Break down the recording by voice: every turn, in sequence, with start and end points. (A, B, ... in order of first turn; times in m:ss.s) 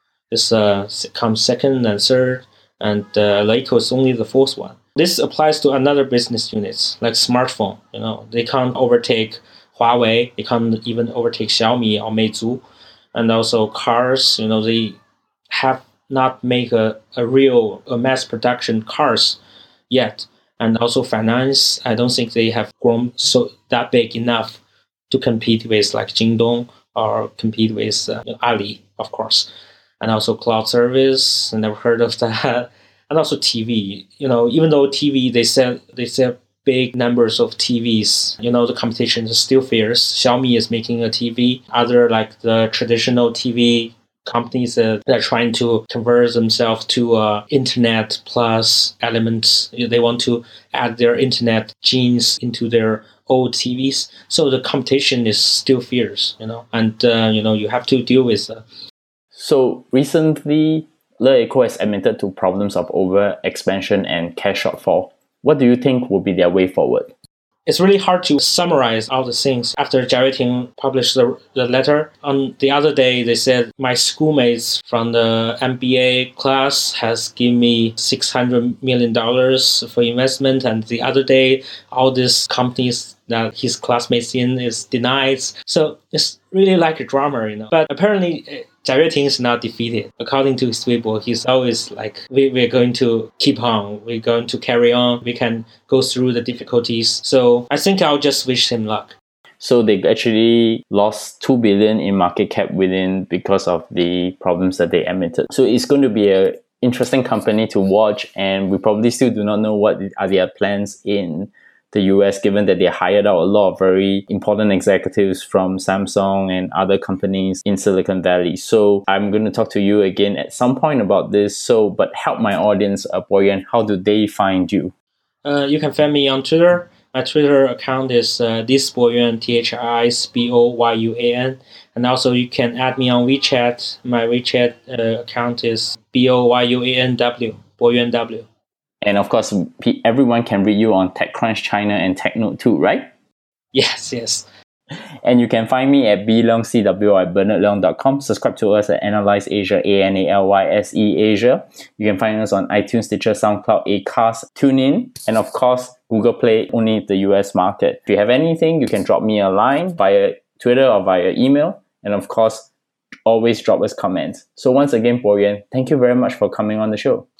0:00.3-0:15.0 A
0:15.5-0:19.4 A
0:19.9-0:29.5 A
0:30.0-0:58.6 A
0:59.4-1:07.1 B
1:07.7-1:39.1 A
1:39.6-2:04.9 B
2:05.4-2:18.5 A
2:19.0-2:23.1 B
2:23.7-2:24.5 A
2:25.2-2:42.7 B
2:43.3-2:47.3 B